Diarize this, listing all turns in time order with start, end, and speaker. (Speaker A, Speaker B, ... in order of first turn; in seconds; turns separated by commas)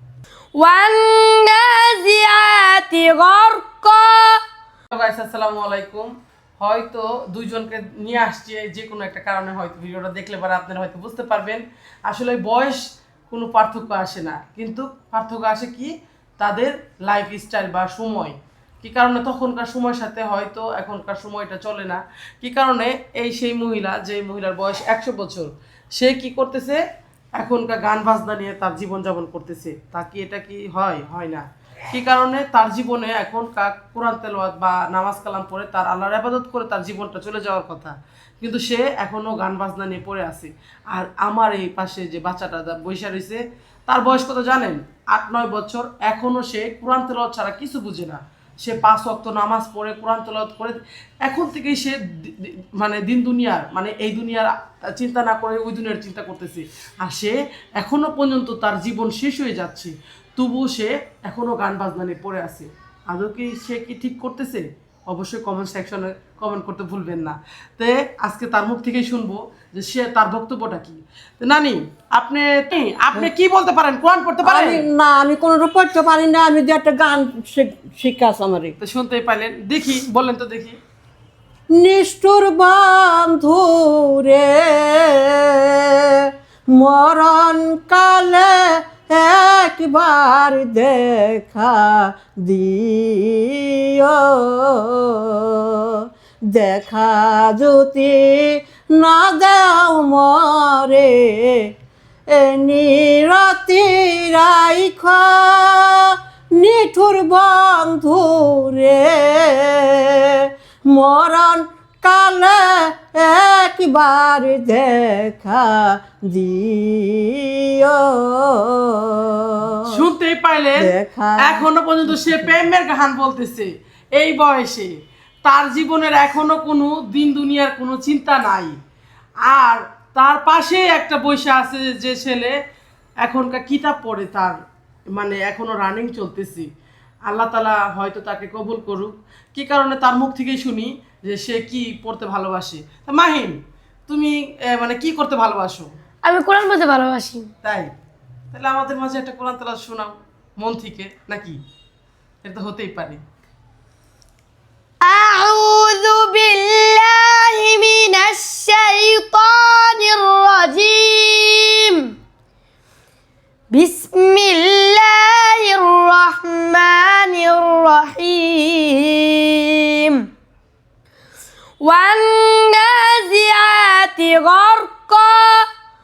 Speaker A: 0.6-4.4, Speaker B: 4.9-26.8, Speaker B: 27.4-74.8, Speaker C: 74.4-78.8, Speaker B: 78.8-80.8, Speaker C: 81.8-101.7, Speaker C: 102.3-120.0, Speaker B: 119.8-120.9, Speaker C: 120.8-122.5, Speaker B: 121.4-124.9, Speaker B: 125.4-128.8, Speaker B: 129.4-132.5, Speaker B: 133.2-134.6, Speaker B: 135.1-136.7, Speaker B: 137.3-143.6, Speaker B: 144.1-145.9, Speaker A: 146.2-147.5, Speaker B: 147.6-147.9, Speaker B: 148.5-151.6, Speaker B: 152.4-153.2, Speaker A: 155.0-162.0, Speaker A: 163.7-170.2, Speaker A: 171.8-175.7